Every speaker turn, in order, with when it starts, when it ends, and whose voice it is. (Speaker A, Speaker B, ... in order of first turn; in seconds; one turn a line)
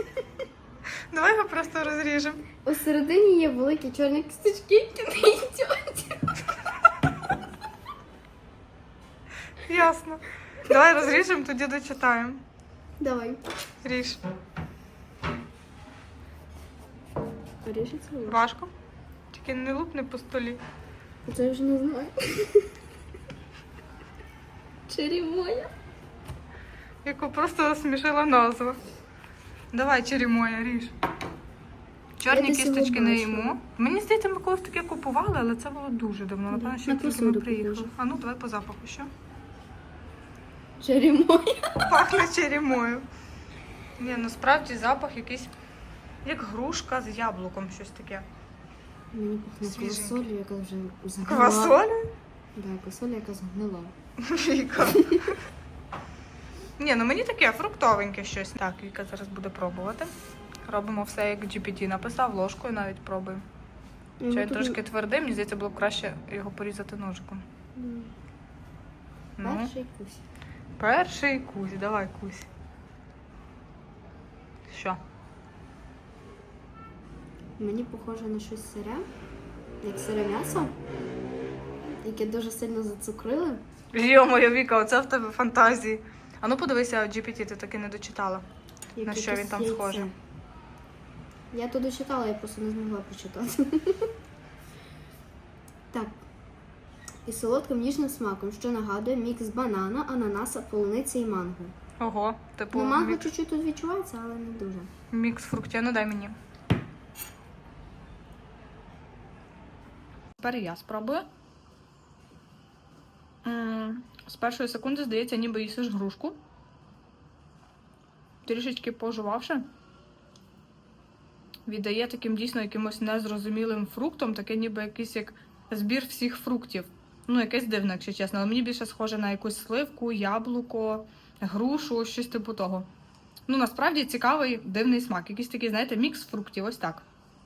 Speaker A: 1.1-2.4
Speaker B: 2.6-6.3
Speaker A: 9.6-12.4
Speaker B: 13.0-13.4
Speaker A: 13.8-14.2
Speaker B: 17.6-18.4
Speaker A: 18.2-18.7
Speaker A: 19.3-20.6
Speaker B: 21.2-22.7
Speaker B: 24.9-25.7
Speaker A: 27.0-28.8
Speaker A: 29.7-30.9
Speaker A: 32.2-39.1
Speaker B: 32.3-33.5
Speaker B: 36.5-37.9
Speaker B: 40.8-41.7
Speaker A: 41.8-43.0
Speaker A: 44.0-45.5
Speaker A: 46.2-48.2
Speaker B: 49.1-51.8
Speaker A: 49.6-50.2
Speaker A: 51.2-52.1
Speaker B: 52.5-53.9
Speaker A: 54.2-55.4
Speaker B: 54.8-55.2
Speaker A: 56.8-60.1
Speaker A: 60.7-63.4
Speaker B: 64.2-64.8
Speaker A: 64.3-67.4
Speaker B: 67.8-68.1
Speaker A: 69.4-69.7
Speaker B: 69.4-70.2
Speaker A: 70.8-72.5
Speaker A: 74.7-75.0
Speaker B: 77.6-79.0
Speaker B: 79.8-80.7
Speaker B: 82.0-83.6
Speaker A: 83.9-88.4
Speaker B: 89.0-90.1
Speaker A: 89.0-90.1
Speaker B: 91.5-94.1
Speaker B: 95.9-96.2
Speaker B: 97.2-101.7
Speaker A: 102.0-103.3
Speaker B: 102.7-104.9
Speaker A: 105.1-106.3
Speaker A: 110.4-111.2
Speaker A: 113.4-116.3
Speaker A: 118.4-119.7
Speaker A: 121.7-132.8
Speaker A: 133.5-137.0